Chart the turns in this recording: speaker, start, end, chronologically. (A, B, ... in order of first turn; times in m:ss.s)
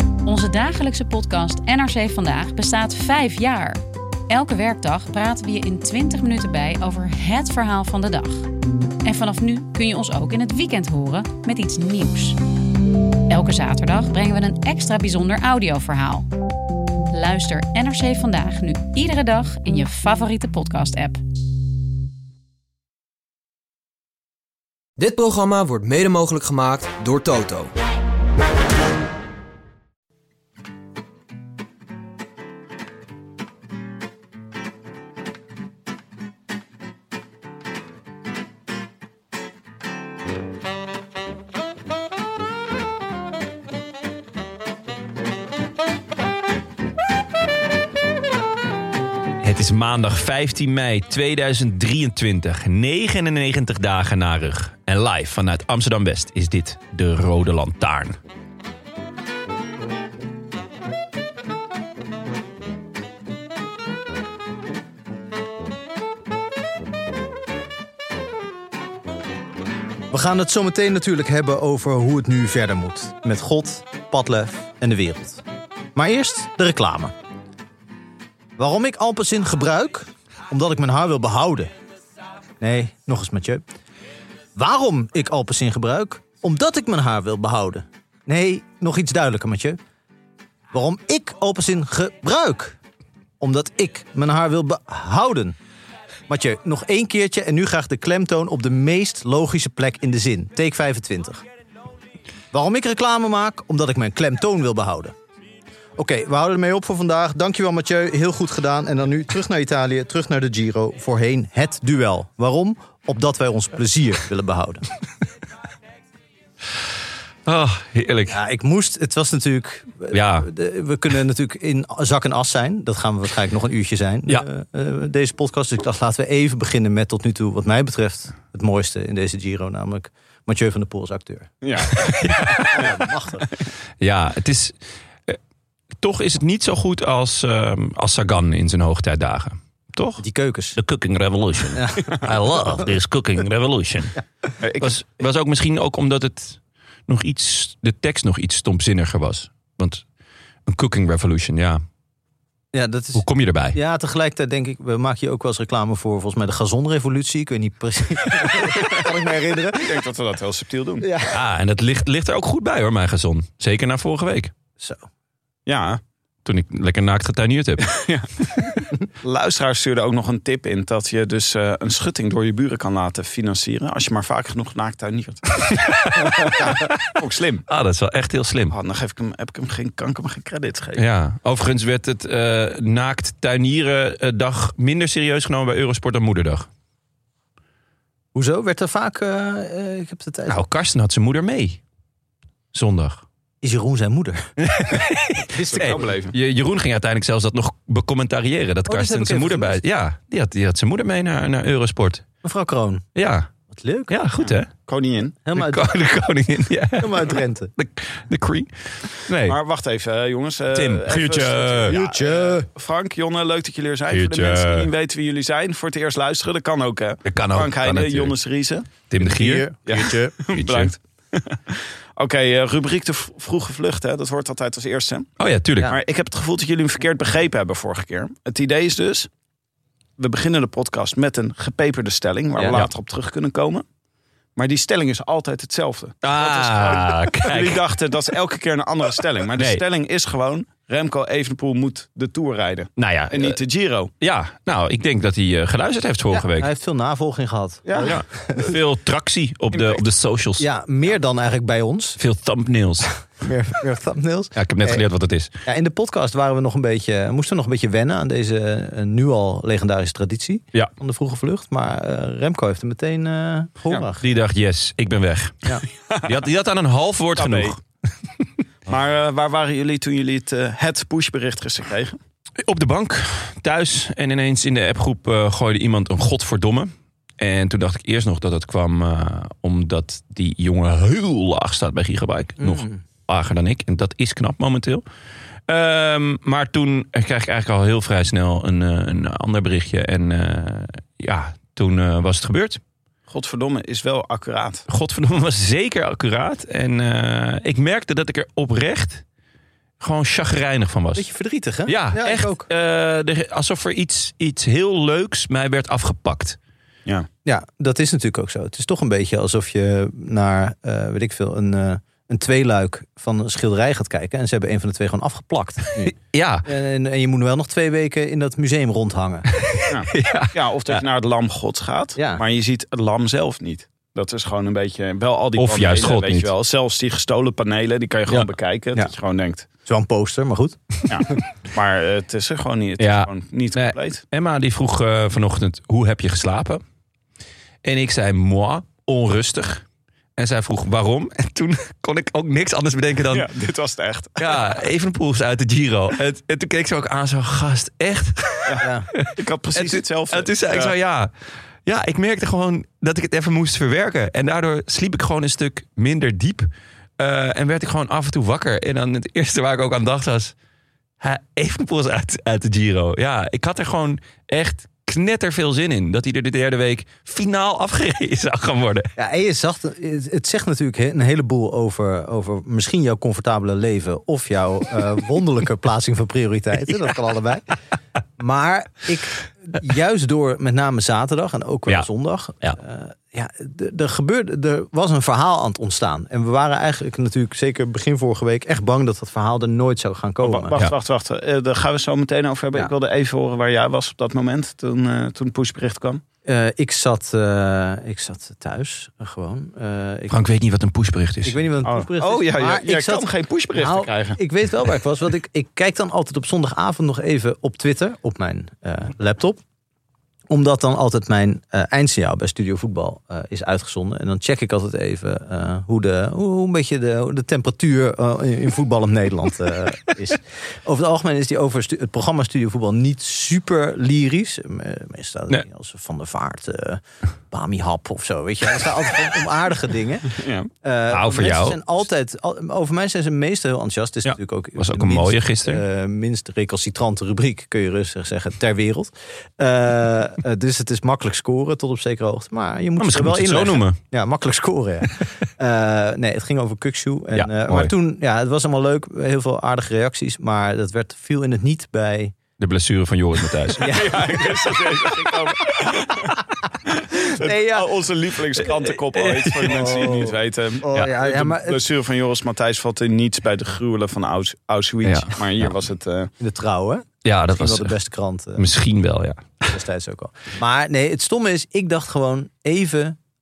0:00.2-0:08.5 A
0:09.0-0:12.4 A
0:13.3-0:16.3 A
0:17.1-0:21.2 A
0:25.0-0:27.7 B
0:49.4-0:58.2 C
1:10.1-1:15.4 D
1:16.0-1:17.1 D
1:18.6-1:21.7 D
1:22.6-1:23.6 D
1:24.6-1:29.8 D
1:30.7-1:32.8 D
1:33.4-1:35.6 D
1:36.3-1:41.4 D
1:42.5-1:45.2 D
1:46.0-1:54.9 D
1:57.5-1:58.4 C
1:58.3-2:11.5 D
2:00.1-2:00.5 C
2:11.6-2:13.0 E
2:12.0-2:12.8 C
2:12.6-2:13.5 D
2:14.0-2:14.8 C
2:16.0-2:20.2 C
2:20.2-2:20.8 D
2:20.8-2:24.2 C
2:21.7-2:22.3 D
2:24.6-2:25.0 E
2:24.8-2:30.0 C
2:30.7-2:31.8 C
2:32.7-2:40.0 D
2:33.2-2:33.8 C
2:39.8-2:41.1 E
2:41.0-2:41.4 D
2:41.3-2:44.5 C
2:44.8-2:45.0 D
2:45.7-2:46.0 E
2:46.4-2:48.0 C
2:47.9-2:57.6 E
2:55.7-2:57.0 C
2:57.7-2:58.7 C
2:58.7-3:01.0 E
3:01.0-3:06.7 C
3:08.3-3:10.6 D
3:10.5-3:11.8 C
3:12.7-3:13.2 C
3:13.6-3:14.5 D
3:14.6-3:22.2 C
3:15.5-3:16.0 D
3:15.6-3:16.4 E
3:18.9-3:19.8 D
3:22.4-3:23.1 D
3:23.2-3:23.5 C
3:23.7-3:24.2 D
3:24.1-3:24.7 C
3:24.4-3:25.4 E
3:25.4-3:26.0 D
3:25.5-3:29.6 C
3:27.0-3:27.7 D
3:29.5-3:38.9 E
3:30.7-3:32.0 C
3:31.9-3:32.7 D
3:34.1-3:34.9 C
3:37.3-3:38.4 C
3:39.0-3:40.9 C
3:39.2-3:40.3 D
3:39.9-3:45.3 E
3:45.4-3:46.0 C
3:45.9-3:49.3 E
3:50.2-3:53.8 E
3:52.6-3:52.9 C
3:54.6-4:04.1 E
3:56.2-3:57.8 C
3:59.6-3:59.8 C
4:03.0-4:03.6 C
4:04.2-4:06.7 C
4:06.3-4:08.8 D
4:07.9-4:08.2 E
4:08.0-4:10.7 C
4:10.6-4:12.2 D
4:12.2-4:13.2 C
4:13.3-4:15.0 D
4:14.6-4:15.5 C
4:15.6-4:24.2 D
4:24.2-4:27.8 C
4:26.1-4:26.4 E
4:27.4-4:27.8 E
4:28.9-4:32.2 E
4:32.6-4:45.0 C
4:42.6-4:43.0 D
4:45.7-4:52.8 C
4:53.3-4:54.9 E
4:54.9-4:59.2 C
5:00.0-5:01.3 C
5:01.2-5:02.7 D
5:01.9-5:06.6 C
5:07.4-5:19.5 D
5:16.0-5:16.7 C
5:19.6-5:21.0 C
5:19.9-5:29.7 E
5:22.2-5:22.4 D
5:25.6-5:26.5 C
5:29.9-5:31.0 D
5:31.1-5:34.2 E
5:33.0-5:36.8 C
5:37.8-5:39.8 C
5:40.4-5:43.5 C
5:43.3-5:44.5 E
5:44.4-5:51.3 C
5:48.6-5:50.9 E
5:48.8-5:49.1 D
5:51.8-6:00.5 C
6:01.2-6:09.1 C
6:09.2-6:17.7 D
6:18.4-6:30.8 D
6:30.4-6:36.2 E
6:36.4-6:40.4 D
6:40.3-6:41.6 C
6:41.4-6:49.6 D
6:41.8-6:44.4 E
6:50.5-7:32.4 D
7:10.3-7:10.7 E
7:11.1-7:11.8 C
7:14.2-7:15.8 C
7:23.0-7:24.0 C
7:27.4-7:27.9 C
7:32.6-7:34.0 C
7:33.8-7:34.7 D
7:33.8-7:46.3 E
7:37.1-7:37.9 D
7:38.6-7:40.1 C
7:39.6-7:41.8 D
7:45.0-7:45.7 C
7:46.4-7:48.7 D
7:47.2-7:47.9 C
7:48.6-7:49.7 C
7:49.6-7:53.2 D